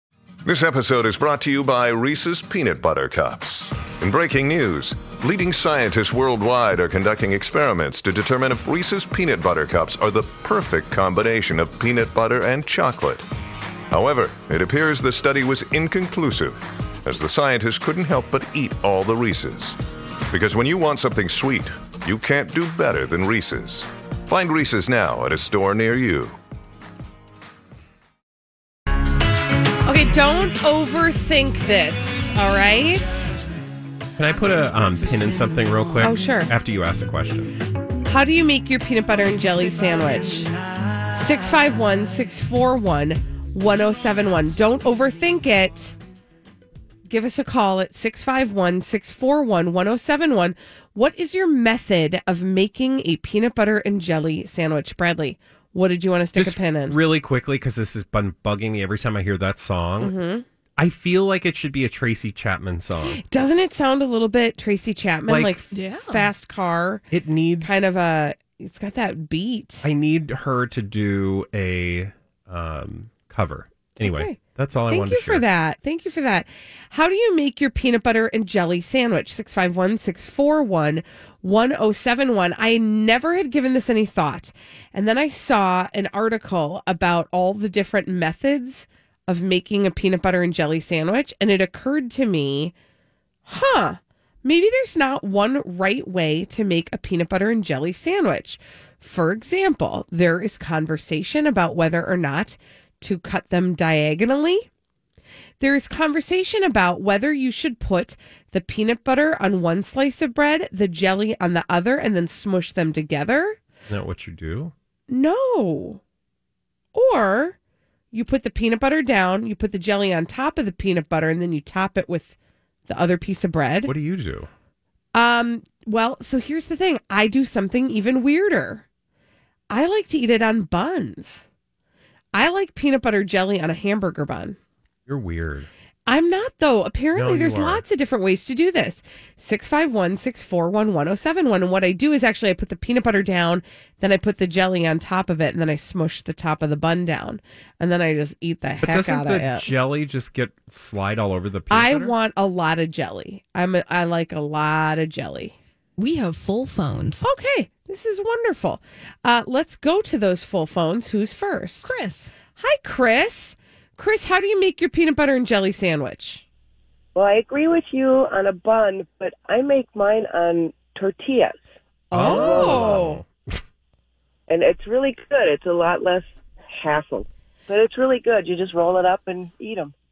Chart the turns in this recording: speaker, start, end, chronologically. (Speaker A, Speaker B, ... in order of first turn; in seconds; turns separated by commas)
Speaker A: 0.4-13.2, Speaker A: 13.9-19.8, Speaker A: 20.3-26.4, Speaker B: 29.8-33.3, Speaker C: 34.2-37.6, Speaker B: 36.0-36.5, Speaker B: 38.0-40.5, Speaker B: 41.1-45.9, Speaker B: 47.1-57.0, Speaker C: 56.3-60.1, Speaker B: 60.0-60.4, Speaker C: 60.8-63.2, Speaker B: 63.1-67.0, Speaker C: 65.3-65.5, Speaker D: 65.7-66.3, Speaker C: 67.1-67.8, Speaker B: 67.6-69.9, Speaker C: 69.8-75.5, Speaker B: 74.0-92.7, Speaker B: 93.5-104.7, Speaker B: 105.6-113.6, Speaker C: 113.9-114.7, Speaker B: 115.1-116.0, Speaker B: 116.9-117.5, Speaker B: 118.1-122.3, Speaker B: 122.9-123.9, Speaker C: 123.8-124.5, Speaker B: 125.1-128.8, Speaker B: 129.7-131.5, Speaker B: 132.3-134.6, Speaker C: 135.1-135.7, Speaker B: 136.1-149.7, Speaker C: 137.1-137.8, Speaker C: 148.8-152.1, Speaker B: 151.7-155.5, Speaker D: 156.0-157.2, Speaker B: 157.2-161.9, Speaker D: 161.8-162.3, Speaker B: 162.6-166.4, Speaker E: 167.1-171.6, Speaker B: 172.1-173.2, Speaker C: 172.1-173.3, Speaker E: 172.2-173.0, Speaker E: 174.5-179.9